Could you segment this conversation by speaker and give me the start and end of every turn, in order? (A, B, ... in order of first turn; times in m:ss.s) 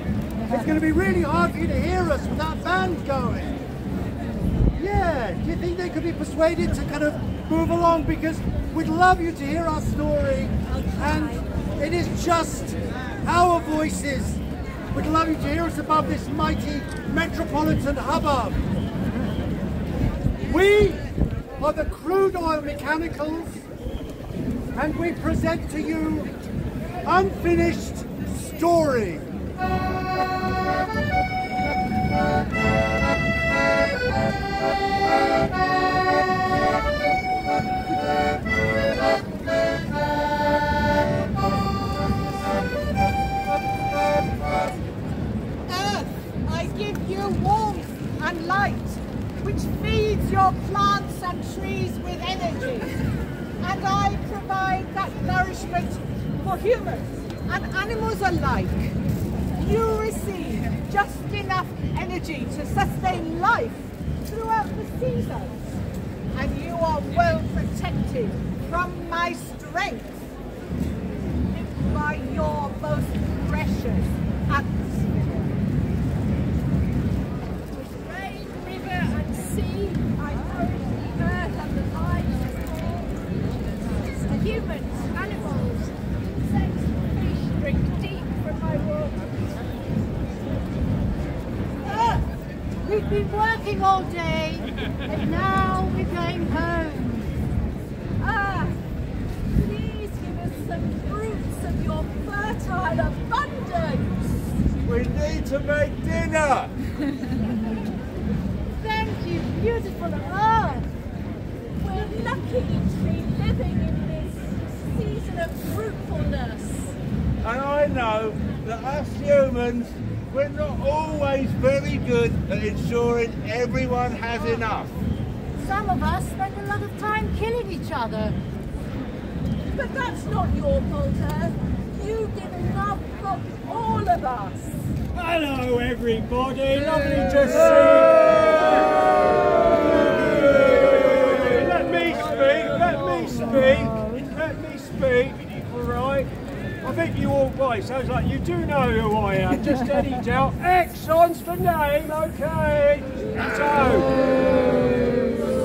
0:00.5-0:03.6 A
0:04.8-0:14.4 A
0:14.9-0:18.6 A
0:20.4-0:21.0 A
0:21.6-0:23.6 A
0:24.8-0:26.3 A
0:27.0-0:29.3 A
0:45.7-0:52.9 B
0:53.6-0:59.0 B
0:59.6-1:05.6 B
1:06.3-1:10.2 B
1:11.5-1:15.4 B
1:17.7-1:29.2 C
1:31.9-1:32.2 C
1:31.9-1:32.2 D
1:32.8-1:37.3 D
1:38.2-1:38.8 C
1:39.5-1:44.4 C
1:44.8-1:46.7 E
1:48.8-1:50.9 D
1:51.8-1:57.0 C
1:57.4-2:04.9 E
2:05.6-2:08.4 D
2:09.7-2:14.9 C
2:15.1-2:18.9 F
2:20.1-2:26.3 F
2:26.8-2:34.1 F